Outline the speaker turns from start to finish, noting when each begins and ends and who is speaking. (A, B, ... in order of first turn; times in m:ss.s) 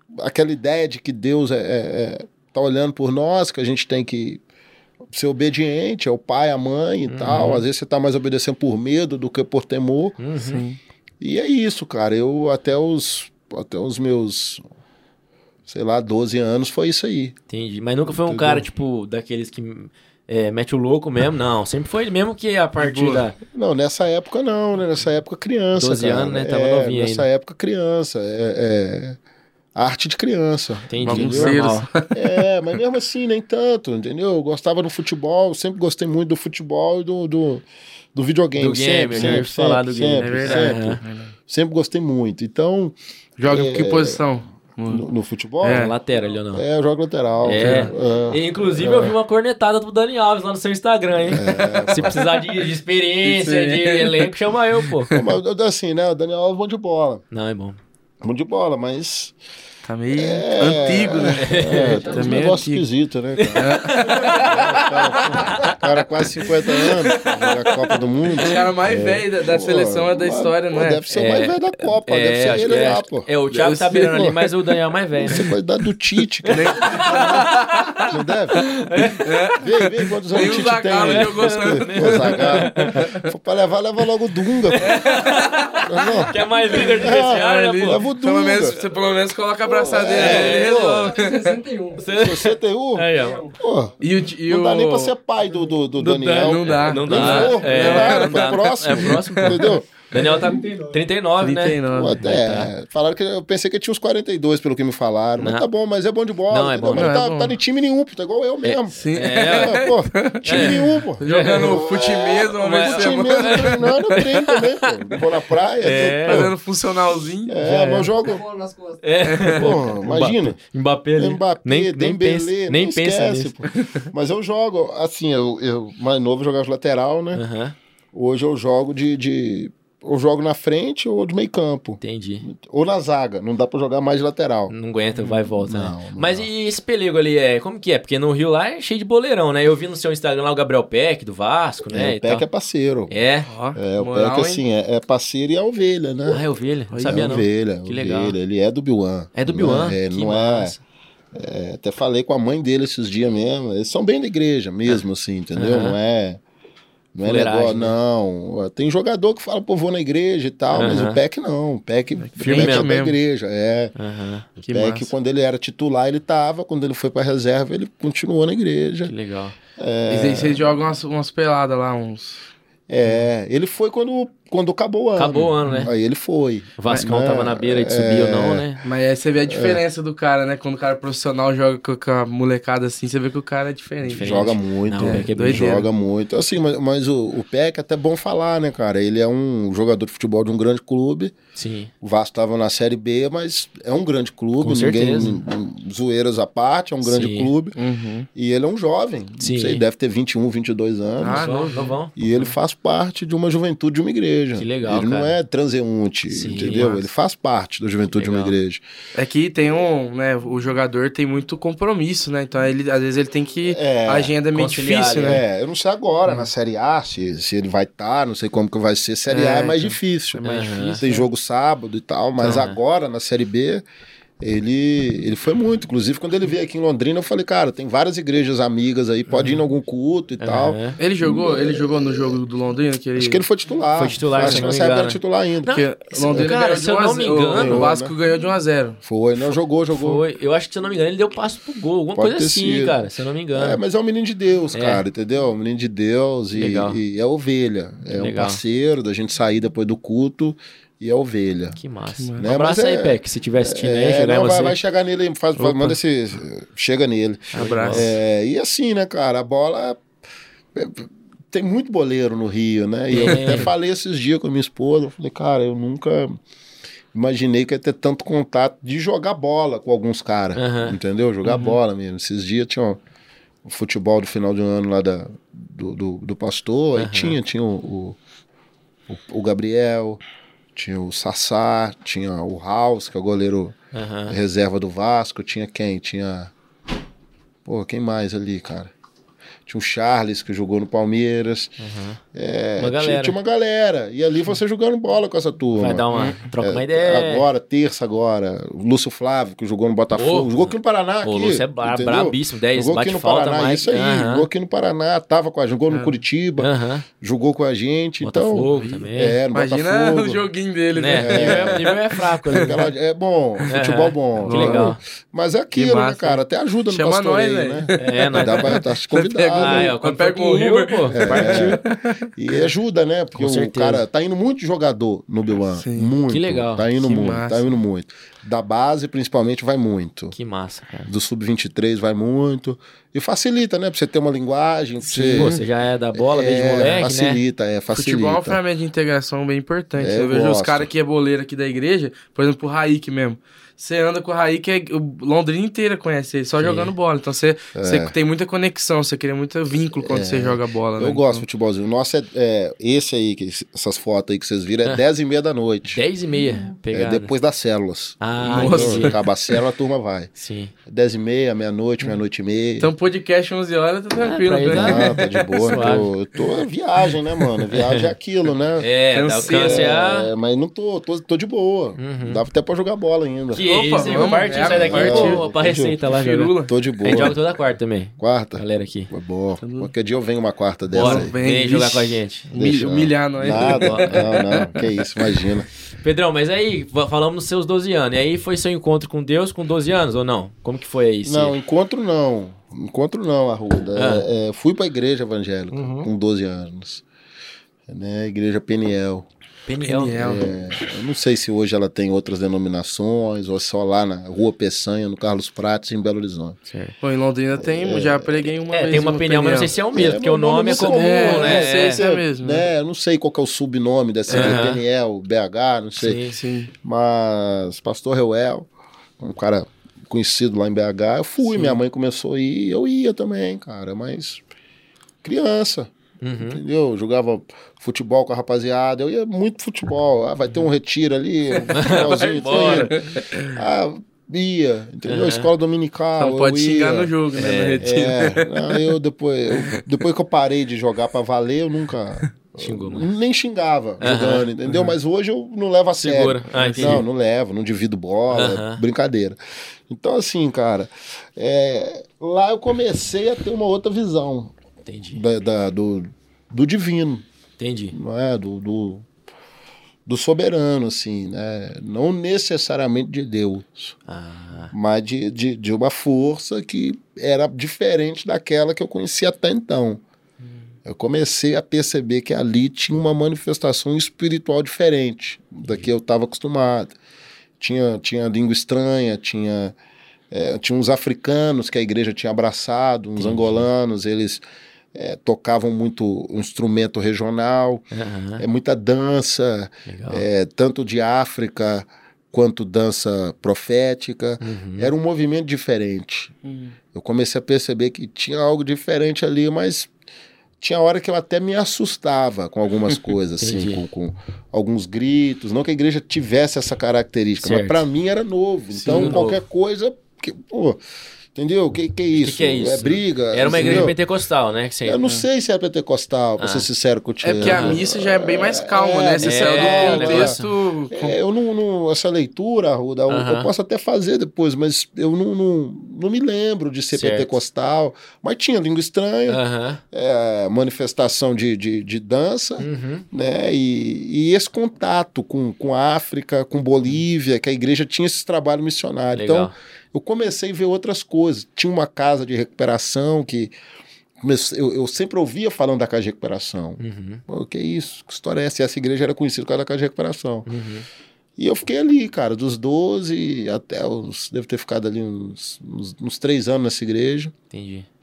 0:00.2-0:04.4 A
0:05.1-0:10.2 A
0:07.1-0:07.6 B
0:07.3-0:07.6 C
0:10.2-0:10.6 B
0:10.4-0:10.8 C
0:11.2-0:14.6 A
0:15.7-0:17.4 A
0:17.5-0:23.4 B
0:18.1-0:18.7 A
0:22.8-0:23.2 C
0:23.5-0:29.2 A
0:25.7-0:27.3 B
0:29.8-0:44.2 A
0:30.9-0:31.9 B
0:31.0-0:32.4 C
0:38.6-0:41.0 B
0:39.1-0:39.4 C
0:40.2-0:41.3 C
0:43.4-0:45.0 C
0:44.9-0:45.9 A
0:45.6-0:45.9 C
0:45.7-0:46.6 B
0:46.5-0:49.2 A
0:47.4-0:55.1 B
0:47.6-0:47.9 C
0:51.3-0:52.2 A
0:52.0-0:52.4 C
0:53.2-0:54.3 C
0:54.9-0:55.2 C
0:55.1-0:57.2 A
0:57.3-0:57.8 B
0:58.2-0:59.3 A
0:59.9-1:02.8 C
1:00.1-1:13.3 A
1:01.4-1:02.1 B
1:03.4-1:07.5 B
1:03.6-1:05.7 C
1:06.7-1:07.6 C
1:08.4-1:11.0 C
1:11.1-1:11.6 B
1:12.1-1:15.5 B
1:13.5-1:14.5 C
1:14.0-1:14.4 A
1:15.2-1:17.5 A
1:15.3-1:15.5 C
1:16.4-1:19.6 B
1:16.5-1:18.1 C
1:18.1-1:18.6 A
1:19.2-1:19.7 C
1:19.6-1:25.0 A
1:20.3-1:23.3 C
1:21.0-1:23.1 B
1:24.7-1:28.0 B
1:24.8-1:31.6 C
1:25.8-1:26.4 A
1:26.9-1:28.8 A
1:29.6-1:31.2 A
1:30.1-1:31.0 B
1:30.3-1:32.1 D
1:32.0-1:33.4 B
1:32.1-1:40.4 A
1:33.1-1:33.6 D
1:34.0-1:35.1 C
1:35.4-1:35.7 D
1:36.0-1:42.7 B
1:36.3-1:40.4 C
1:40.2-1:41.0 D
1:41.4-1:42.3 C
1:41.9-1:56.6 A
1:45.4-1:45.7 B
1:46.5-1:47.1 B
1:47.0-1:47.6 C
1:48.6-1:49.8 B
1:49.0-1:53.9 C
1:50.4-1:51.9 B
1:52.6-1:55.2 B
1:55.8-1:56.5 B
1:55.9-1:58.1 C
1:57.5-1:58.4 A
1:58.2-1:59.5 D
1:59.0-2:03.5 B
1:59.2-1:59.8 C
1:59.5-2:00.6 A
2:01.2-2:07.4 A
2:03.7-2:04.1 C
2:07.3-2:07.8 B
2:08.1-2:14.7 A
2:12.0-2:12.5 B
2:14.7-2:22.5 B
2:15.2-2:15.5 C
2:15.6-2:16.5 A
2:21.9-2:23.2 A
2:23.1-2:23.5 B
2:23.5-2:24.6 C
2:23.8-2:26.4 A
2:26.3-2:28.4 B
2:26.9-2:27.2 C
2:27.0-2:30.8 A
2:29.4-2:30.8 B
2:31.3-2:36.4 A
2:35.6-2:36.0 B
2:37.1-2:43.9 A
2:37.2-2:37.9 B
2:40.7-2:41.2 B
2:42.2-2:43.2 C
2:42.4-2:42.9 B
2:44.0-2:44.6 B
2:44.6-2:45.1 C
2:44.7-2:49.1 A
2:49.0-2:49.6 B
2:49.8-2:50.8 A
2:50.1-2:52.5 C
2:52.9-2:58.7 A
2:55.2-2:55.9 B
2:55.6-2:55.9 C
2:56.8-2:58.8 B
2:58.8-3:05.9 C
2:59.4-2:59.8 A
3:04.1-3:05.8 B
3:04.1-3:11.4 A
3:11.6-3:11.9 B
3:12.0-3:17.8 A
3:14.6-3:15.4 B
3:17.0-3:17.5 B
3:17.8-3:18.3 C
3:18.4-3:21.6 A
3:19.4-3:19.8 B
3:21.2-3:22.0 C
3:21.2-3:22.5 B
3:22.2-3:28.8 A
3:24.6-3:25.4 B
3:26.3-3:27.0 B
3:26.6-3:27.0 C
3:28.1-3:28.6 B
3:29.2-3:35.4 C
3:33.6-3:34.3 A
3:34.5-3:35.4 B
3:35.0-3:43.8 A
3:39.3-3:41.3 C
3:40.4-3:41.0 B
3:42.4-3:42.8 B
3:44.4-3:52.4 A
3:50.4-3:51.0 B
3:51.0-3:53.4 C
3:53.2-3:56.5 A
3:54.0-3:57.9 B
3:54.4-3:54.7 C
3:55.7-3:59.0 C
3:57.5-3:58.2 A
3:59.0-4:00.2 A
3:59.9-4:03.8 B
4:02.2-4:11.8 A
4:04.7-4:05.0 B
4:06.5-4:07.0 B
4:08.1-4:08.6 B
4:11.8-4:14.8 B
4:12.2-4:12.5 C
4:12.4-4:20.0 A
4:15.6-4:16.0 C
4:17.5-4:18.1 C
4:17.5-4:18.1 B
4:20.8-4:26.4 A
4:23.1-4:23.7 B
4:23.2-4:23.5 C
4:27.1-4:33.0 A
4:30.6-4:31.0 B
4:31.4-4:31.8 C
4:33.6-4:38.2 A
4:37.0-4:37.4 B
4:39.1-4:40.2 A
4:40.8-4:43.8 A
4:43.9-4:44.4 B
4:44.3-4:46.5 A
4:47.6-4:48.9 A
4:49.7-4:51.8 A
4:51.8-4:52.2 B
4:52.3-5:10.5 A
4:52.8-4:53.4 B
4:55.8-4:57.5 B
4:56.1-4:56.5 C
5:00.1-5:04.5 B
5:05.9-5:06.2 C
5:06.6-5:07.0 B
5:08.2-5:09.4 B
5:08.7-5:12.8 C
5:11.0-5:12.8 B
5:11.1-5:11.9 A
5:12.5-5:20.0 A
5:13.7-5:15.0 B
5:14.4-5:15.0 C
5:15.7-5:22.6 C
5:18.0-5:18.8 B
5:19.5-5:21.8 B
5:21.1-5:21.8 A
5:22.4-5:30.4 A
5:23.4-5:24.0 B
5:25.8-5:26.2 C
5:26.3-5:26.9 B
5:27.0-5:27.8 C
5:30.3-5:31.1 B
5:31.1-5:35.6 A
5:35.0-5:35.6 C
5:35.4-5:37.4 B
5:36.1-5:38.6 A
5:37.9-5:51.4 C
5:40.0-5:40.9 A
5:46.6-5:46.9 B
5:47.8-5:48.2 A
5:49.9-5:56.0 A
5:55.9-5:57.3 B
5:56.7-6:00.3 A
5:58.2-5:59.2 B
5:58.5-5:59.2 C
6:00.4-6:00.7 B
6:00.9-6:02.9 A
6:02.8-6:05.3 C
6:04.2-6:06.1 B
6:04.7-6:08.9 A
6:07.7-6:08.1 B
6:08.8-6:10.3 B
6:09.1-6:09.9 C
6:09.4-6:16.0 A
6:12.0-6:12.4 B
6:13.5-6:19.1 B
6:13.6-6:15.5 C
6:16.1-6:16.7 C
6:16.7-6:17.4 A
6:18.2-6:21.3 A
6:19.6-6:19.9 C
6:20.9-6:22.5 B
6:21.0-6:24.8 C
6:22.5-6:25.7 A
6:23.4-6:24.8 B
6:26.0-6:31.6 B
6:31.2-6:37.0 A
6:34.0-6:34.3 B
6:35.7-6:36.1 B
6:37.9-6:39.3 A
6:39.7-6:40.2 B
6:39.8-6:40.5 C
6:40.1-6:46.6 A
6:46.7-6:47.0 B
6:47.0-6:49.8 C
6:47.6-6:48.5 A
6:48.7-6:52.0 B
6:49.9-6:56.2 A
6:50.7-6:52.7 C
6:54.3-6:54.7 C
6:54.3-6:54.8 B
6:56.0-6:56.4 B
6:56.3-6:56.7 C
6:56.8-7:04.4 A
7:05.2-7:17.1 A
7:06.2-7:06.6 B
7:11.5-7:13.5 C
7:11.7-7:13.0 B
7:15.0-7:15.5 B
7:16.2-7:18.9 C
7:17.4-7:17.9 B
7:17.8-7:29.4 A
7:22.6-7:23.1 B
7:24.0-7:24.5 B
7:24.7-7:25.0 C
7:26.0-7:27.0 B
7:26.5-7:27.0 C
7:28.3-7:28.8 B
7:29.9-7:34.5 A
7:34.9-7:35.2 B
7:35.1-7:37.3 A
7:37.6-7:38.0 B
7:37.9-7:39.1 A
7:40.1-7:44.0 A
7:44.1-7:44.7 B
7:44.7-7:50.0 A
7:50.9-7:56.9 A
7:57.6-7:59.8 A
8:00.3-8:04.4 A
8:03.2-8:03.7 B
8:04.9-8:07.8 A
8:07.9-8:08.4 B
8:08.4-8:16.3 A
8:09.9-8:10.3 B
8:14.4-8:14.9 B
8:16.4-8:16.8 C
8:16.9-8:19.9 A
8:20.6-8:30.8 A
8:23.4-8:23.8 B
8:27.4-8:27.8 B
8:28.8-8:29.4 B
8:28.9-8:29.2 C
8:31.4-8:34.0 A
8:32.2-8:35.0 B
8:33.5-8:33.9 C
8:34.8-8:40.4 A
8:36.4-8:36.7 B
8:37.2-8:41.2 C
8:37.4-8:37.8 B
8:39.2-8:40.5 B
8:40.9-8:49.4 A
8:43.1-8:43.5 B
8:46.9-8:47.4 B
8:49.3-8:49.8 B
8:49.9-9:03.5 A
8:52.6-8:53.1 B
8:59.1-8:59.5 B
9:04.2-9:10.5 A
9:06.8-9:07.2 B
9:10.5-9:10.9 B
9:11.4-9:17.3 A
9:17.5-9:17.9 B